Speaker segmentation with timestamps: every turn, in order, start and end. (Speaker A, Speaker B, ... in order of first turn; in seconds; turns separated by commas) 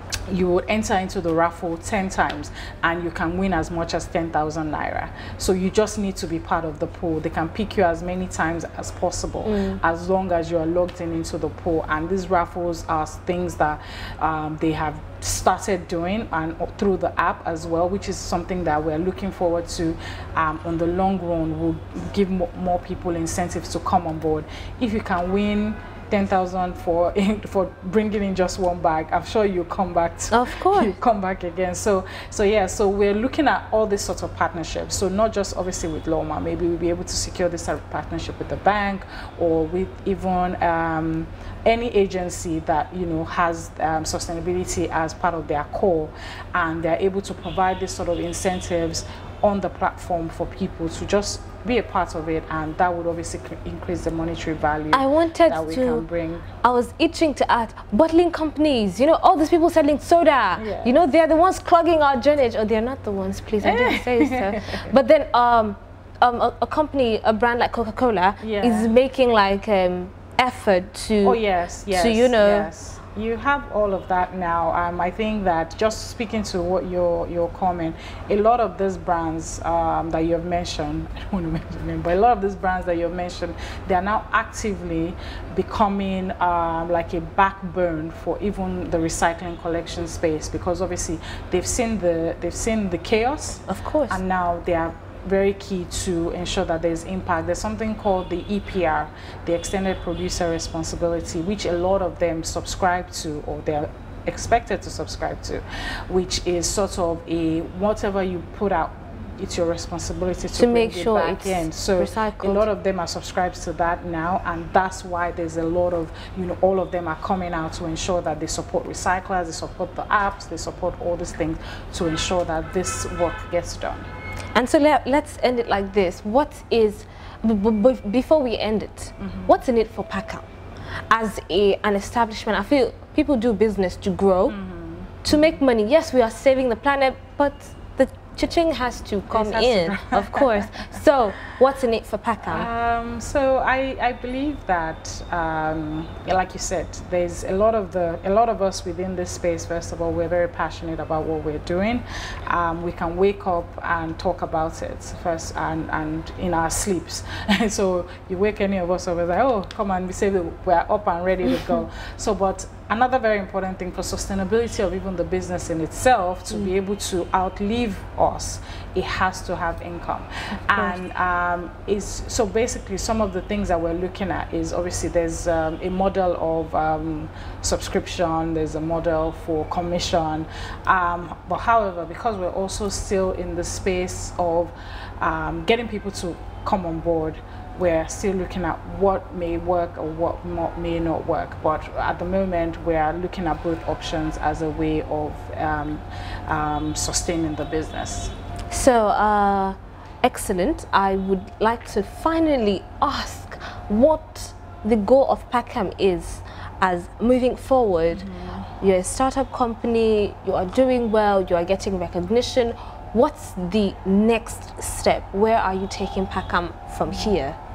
Speaker A: 0.3-56.5, Speaker B: 9.4-9.8, Speaker B: 30.3-30.9, Speaker B: 54.9-56.0, Speaker B: 56.6-71.4, Speaker A: 60.6-61.0, Speaker A: 63.6-64.9, Speaker A: 68.4-68.9, Speaker A: 71.2-124.1, Speaker B: 71.9-72.7, Speaker B: 93.7-94.2, Speaker B: 110.5-112.6, Speaker B: 124.5-130.5, Speaker A: 129.2-129.6, Speaker B: 131.1-134.6, Speaker A: 134.5-135.6, Speaker B: 135.2-142.7, Speaker A: 139.3-141.0, Speaker A: 142.4-198.3, Speaker B: 170.7-171.0, Speaker B: 198.7-208.2, Speaker A: 208.1-208.7, Speaker B: 208.8-217.6